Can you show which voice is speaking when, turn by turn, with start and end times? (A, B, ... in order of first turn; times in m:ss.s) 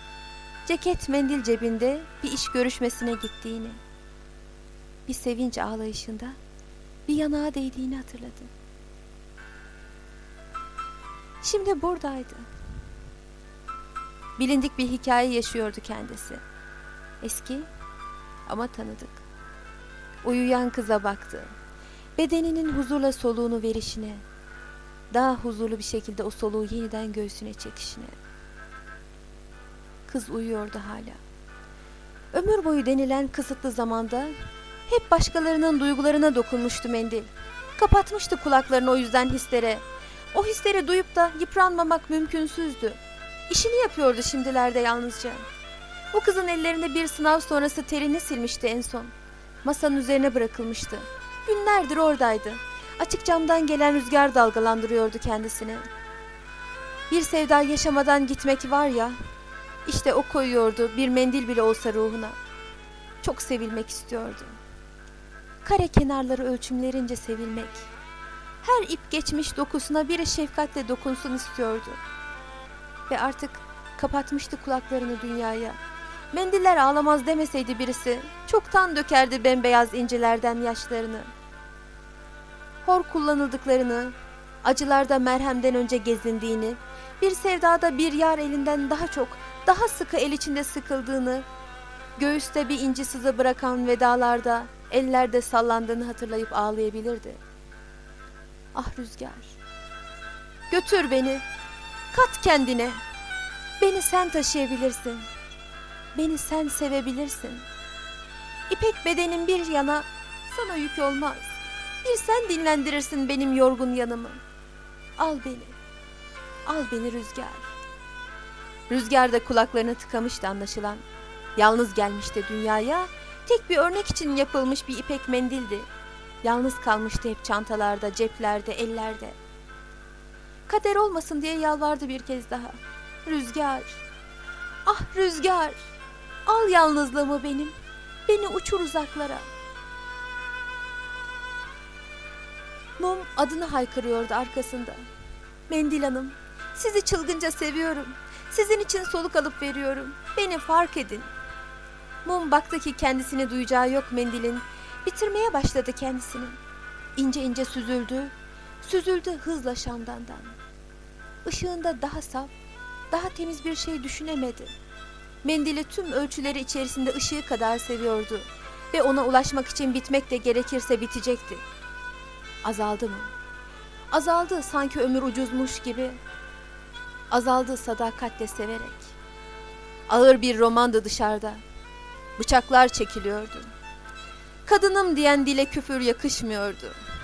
0:00.7-0:03.8 A
0:05.1-0:06.4 A
0:07.1-0:08.5 A
0:11.4-0:12.5 A
0:14.4-0:16.4 A
0:17.2-0:17.7 A
0:18.5-0:19.2 A
0:20.2-0:21.5 A
0:22.2-0:24.2 A
0:25.1-0:28.2 A
0:30.1-0:31.2 A
0:32.3-0:34.4 A
0:34.9-0:45.4 A
0:46.1-0:49.1 A
0:49.6-0:55.8 A
0:57.1-0:59.2 A
0:59.9-1:02.4 A
1:03.2-1:04.6 A
1:05.6-1:07.9 A
1:08.6-1:12.0 A
1:13.1-1:15.8 A
1:16.3-1:21.3 A
1:22.8-1:31.4 A
1:32.2-1:37.4 A
1:38.7-1:39.6 A
1:40.7-1:41.4 A
1:42.1-1:43.0 A
1:43.8-1:45.3 A
1:46.2-1:47.7 A
1:48.7-1:54.4 A
1:55.2-1:55.8 A
1:56.7-1:57.7 A
1:58.9-2:01.0 A
2:01.6-2:05.9 A
2:06.4-2:09.4 A
2:10.7-2:14.0 A
2:14.8-2:15.9 A
2:16.5-2:17.8 A
2:18.3-2:19.5 A
2:23.0-2:25.0 A
2:25.7-2:31.3 A
2:32.2-2:36.6 A
2:37.2-2:40.5 A
2:41.4-2:42.5 A
2:43.1-2:44.7 A
2:45.4-2:51.6 A
2:52.6-2:53.3 A
2:54.1-2:56.2 A
2:57.3-2:59.2 A
3:00.1-3:01.6 A
3:02.4-3:03.7 A
3:04.6-3:07.0 A